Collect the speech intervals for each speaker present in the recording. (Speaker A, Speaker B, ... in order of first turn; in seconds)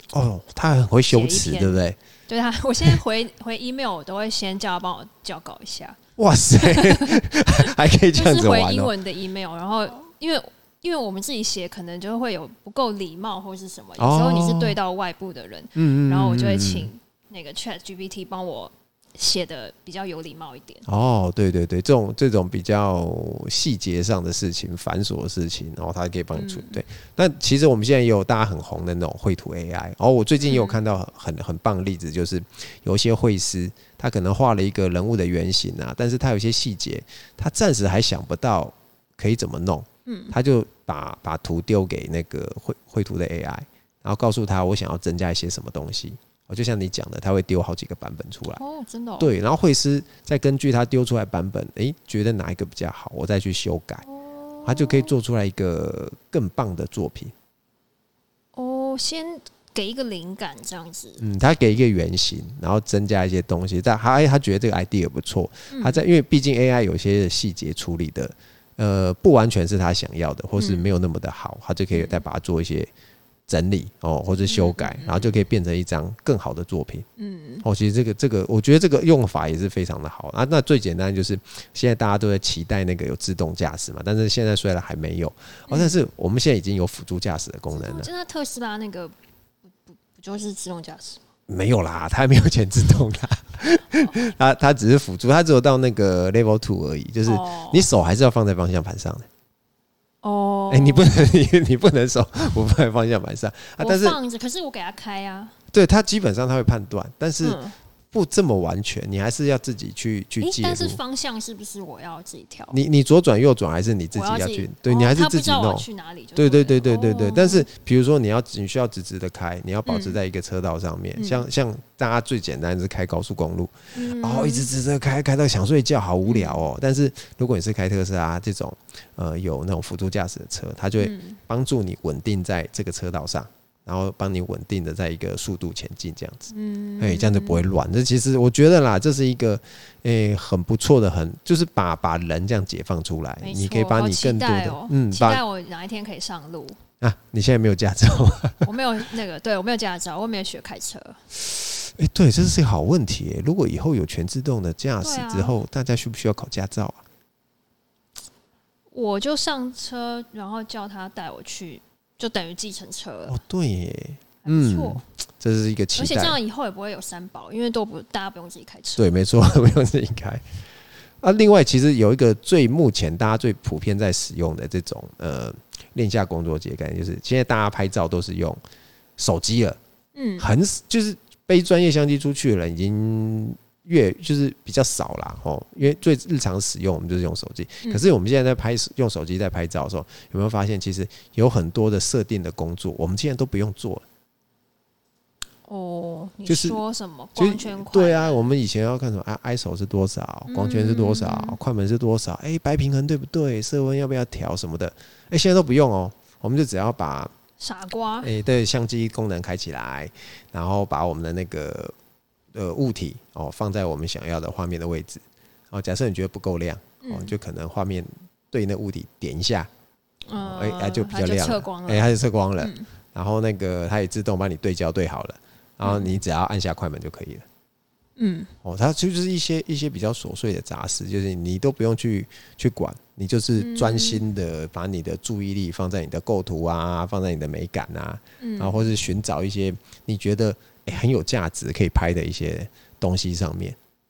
Speaker A: 0.1-2.0, 6.2-8.9, 14.0-14.8, 15.8-16.9, 20.9-48.6, 49.2-54.0, 54.6-57.3, 61.2-72.9, 73.5-77.1, 77.6-88.1, 91.5-99.3, 100.7-104.2, 105.7-107.6, 108.1-111.0, 112.7-145.4, 147.0-148.7, 151.8-157.0, 163.3-166.4, 169.0-170.4, 171.2-178.6, 179.2-179.8, 180.4-194.0, 196.5-196.8, 197.4-207.3, 208.2-211.9, 212.5-219.7, 220.4-227.4, 228.6-243.8
Speaker B: 1.1-6.0, 6.6-20.9, 26.3-26.8, 30.4-30.8, 40.1-40.4, 48.6-49.3, 54.0-55.1, 58.5-61.2, 65.7-66.0, 70.6-70.9, 71.9-72.2, 74.5-75.4, 77.2-77.7, 85.7-86.0, 87.7-89.1, 89.9-91.2, 97.2-97.9, 100.2-101.1, 103.8-105.5, 107.4-107.8, 110.4-112.8, 114.1-117.7, 119.9-120.2, 121.2-121.4, 124.0-124.7, 126.2-126.6, 131.0-131.4, 136.5-137.7, 143.4-146.8, 148.6-151.2, 155.0-155.6, 158.9-163.4, 164.4-165.0, 165.9-169.1, 180.2-180.5, 195.7-198.4, 200.5-201.6, 207.6-208.3, 217.0-217.3, 220.3-222.9, 225.8-226.1, 228.2-228.5, 233.6-234.2, 238.4-238.9